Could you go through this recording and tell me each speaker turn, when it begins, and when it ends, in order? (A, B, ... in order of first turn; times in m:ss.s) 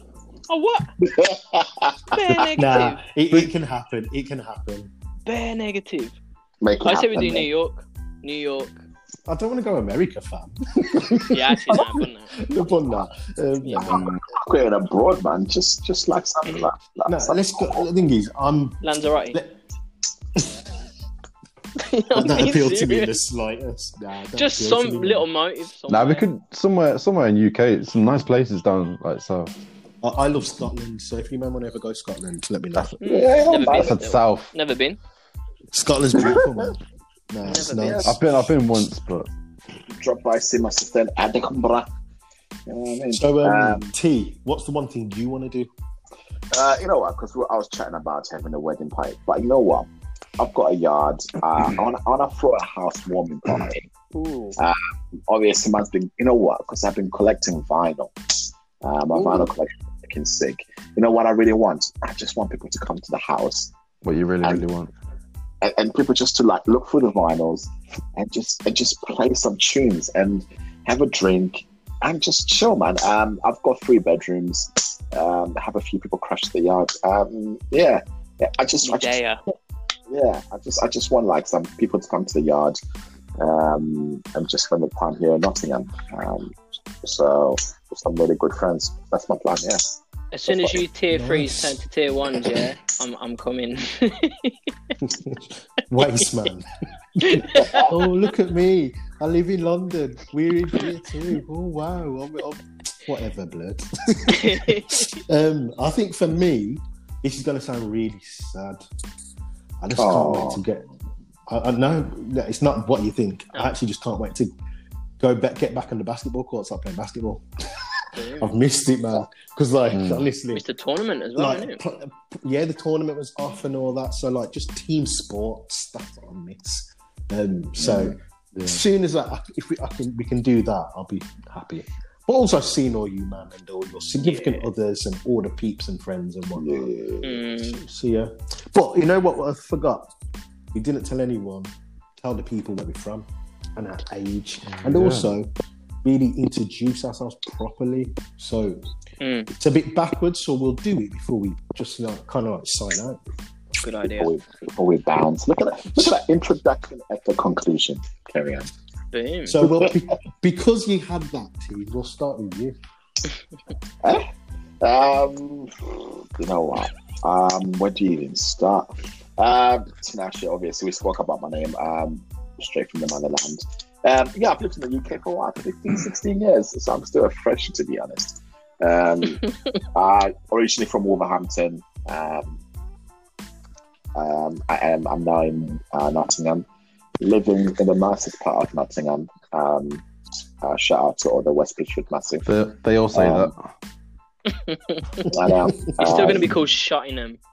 0:00.5-0:00.9 A
0:01.0-0:02.2 B
0:02.1-0:03.0 A
0:02.6-0:04.9 C
0:05.2-0:06.2 A
0:06.6-0:07.5 B
0:06.8-0:08.8 A
0:09.2-0:14.2 C
0:11.3-0:12.4 A
0:13.6-0:14.0 A
0:13.9-0:14.2 D
0:13.9-0:17.8 B
0:16.4-0:16.7 A
0:17.0-0:18.8 C
0:18.8-0:19.4 A
0:19.3-0:19.6 C
0:20.4-0:20.7 C
0:21.8-0:23.1 A
0:22.1-0:25.3 C
0:24.4-0:26.2 A
0:25.9-0:29.5 D
0:30.0-0:32.9 C
0:32.7-0:33.0 D
0:33.0-0:35.0 A
0:33.0-0:33.9 B
0:33.6-0:34.5 D
0:35.7-0:36.8 C
0:36.1-0:36.7 B
0:37.3-0:38.2 C
0:37.4-0:38.0 A
0:37.8-0:38.1 B
0:38.0-0:39.3 D
0:40.0-0:41.9 B
0:42.7-0:43.9 B
0:43.1-0:45.7 C
0:46.5-0:53.9 B
0:54.1-0:54.6 A
0:54.6-0:58.1 B
0:58.8-1:03.7 B
1:04.0-1:04.9 D
1:05.6-1:19.2 B
1:18.8-1:19.4 A
1:20.1-1:22.8 B
1:23.4-1:30.8 B
1:30.3-1:35.0 A
1:31.1-1:31.8 C
1:35.0-1:36.6 C
1:37.2-1:37.9 A
1:37.2-1:48.8 C
1:37.5-1:37.9 B
1:44.3-1:45.2 A
1:49.8-1:50.9 C
1:50.0-1:50.6 B
1:51.5-1:54.5 C
1:55.2-2:00.6 C
1:58.1-1:58.5 A
1:59.9-2:00.3 D
2:00.5-2:01.8 A
2:01.4-2:16.9 C
2:07.8-2:08.2 B
2:08.6-2:08.8 D
2:14.2-2:14.6 A
2:16.5-2:17.4 B
2:17.2-2:17.8 A
2:17.5-2:20.1 C
2:20.7-2:25.5 C
2:24.6-2:25.4 D
2:26.0-2:28.8 C
2:29.2-2:29.5 A
2:29.5-2:33.2 C
2:33.8-2:34.3 A
2:34.0-2:38.7 B
2:39.1-2:39.6 A
2:39.4-2:42.8 C
2:39.6-2:39.9 B
2:44.8-2:59.4 B
2:59.9-3:02.6 B
3:04.1-3:06.6 B
3:07.2-3:10.0 B
3:10.6-3:12.4 B
3:12.4-3:13.7 D
3:13.1-3:13.5 B
3:14.5-3:15.2 A
3:15.3-3:16.5 B
3:15.5-3:16.5 C
3:16.0-3:17.4 A